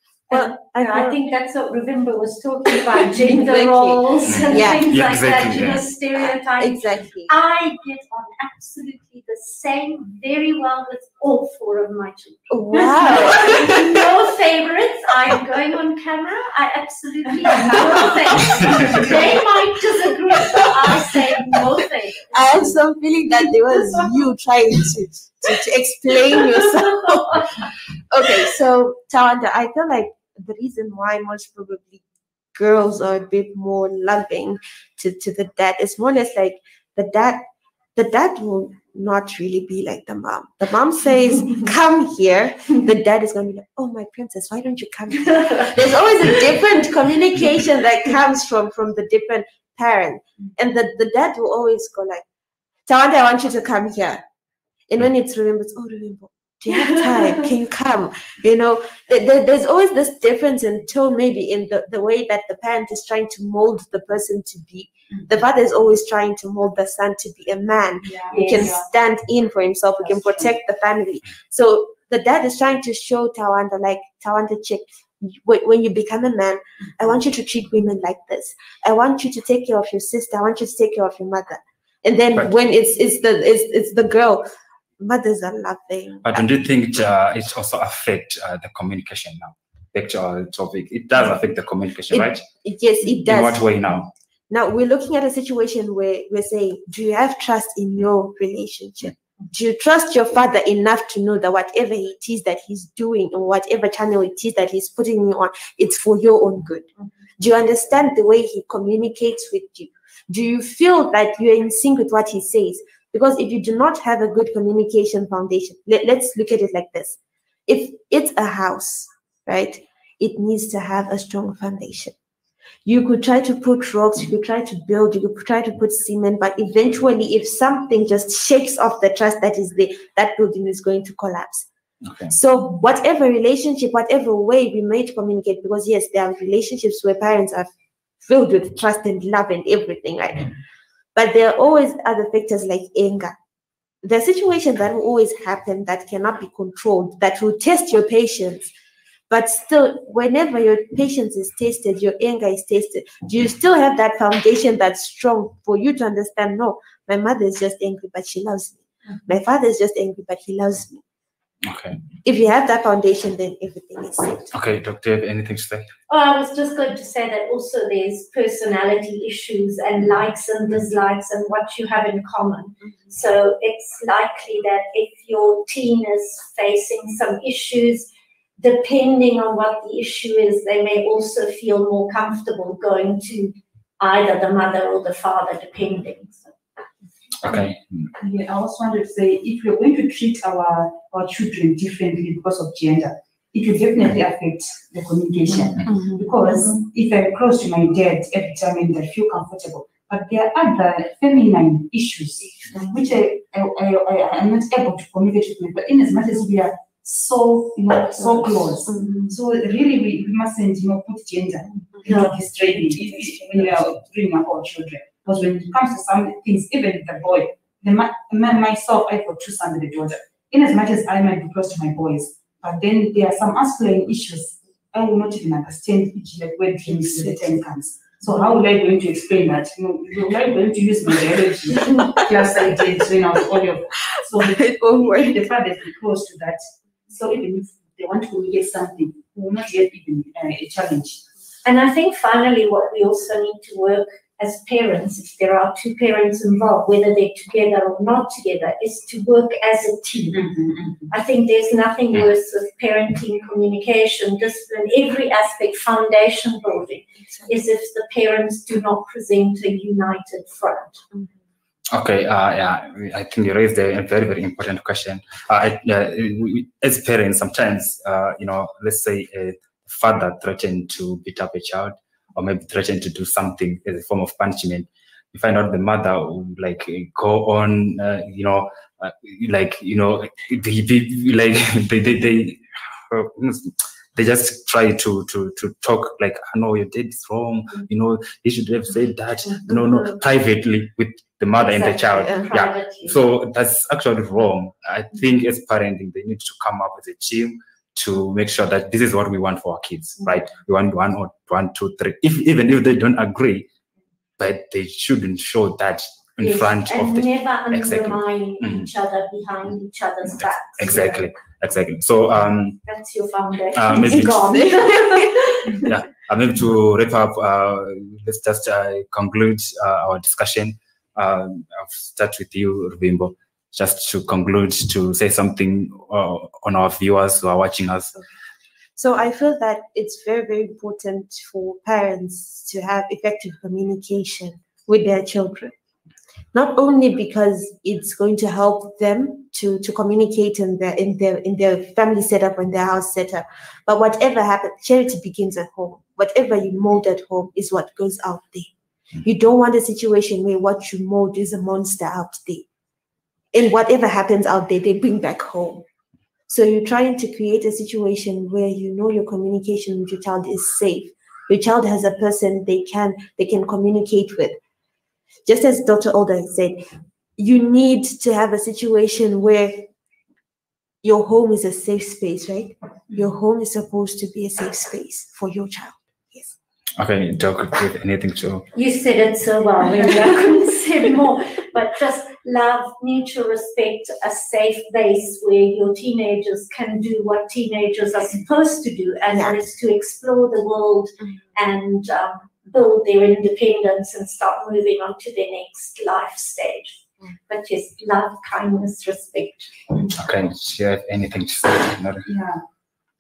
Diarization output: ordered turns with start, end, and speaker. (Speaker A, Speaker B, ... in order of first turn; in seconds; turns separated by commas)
Speaker A: 0.3-1.2, Speaker B: 0.3-22.8, Speaker A: 2.9-4.8, Speaker C: 4.3-5.8, Speaker A: 6.6-7.3, Speaker A: 12.5-14.0, Speaker C: 18.5-18.9, Speaker A: 22.3-32.0, Speaker B: 23.4-24.1, Speaker B: 26.6-27.5, Speaker A: 32.5-37.4, Speaker A: 38.0-52.2, Speaker A: 52.9-54.2, Speaker A: 54.9-84.4, Speaker B: 56.7-57.5, Speaker D: 68.0-68.9, Speaker B: 68.3-68.7, Speaker D: 70.0-70.5, Speaker A: 85.0-86.5, Speaker C: 86.2-92.4, Speaker A: 92.1-93.7, Speaker C: 93.1-94.1, Speaker A: 94.5-106.9, Speaker A: 107.4-122.1, Speaker A: 122.8-131.7, Speaker A: 132.3-137.7, Speaker A: 138.2-140.5, Speaker A: 141.2-143.3, Speaker A: 144.0-148.7, Speaker A: 149.3-161.0, Speaker C: 161.6-162.0, Speaker A: 162.2-164.5, Speaker C: 164.5-165.9, Speaker B: 166.1-178.1, Speaker B: 178.6-186.5, Speaker C: 187.4-188.1, Speaker D: 188.2-241.2, Speaker A: 202.7-203.0, Speaker A: 208.9-209.2, Speaker A: 212.0-213.7, Speaker B: 212.1-212.3, Speaker A: 226.9-227.6, Speaker A: 231.8-232.3, Speaker A: 234.2-235.4, Speaker B: 241.7-250.5, Speaker D: 250.3-251.1, Speaker B: 251.1-261.0, Speaker C: 261.9-303.7, Speaker A: 289.7-290.2, Speaker B: 291.6-293.2, Speaker C: 304.4-308.9, Speaker B: 306.4-311.3, Speaker C: 310.4-312.8, Speaker B: 312.9-315.8, Speaker C: 313.8-314.6, Speaker A: 314.1-315.7, Speaker C: 315.8-328.1, Speaker A: 329.0-335.7, Speaker A: 336.5-348.7, Speaker A: 349.2-352.7, Speaker A: 353.5-355.9, Speaker A: 356.5-364.6, Speaker A: 365.5-366.9, Speaker A: 367.4-369.9, Speaker A: 371.0-376.5, Speaker C: 377.0-378.7, Speaker B: 378.7-399.8, Speaker A: 389.3-389.6, Speaker C: 400.1-402.3, Speaker D: 402.3-402.6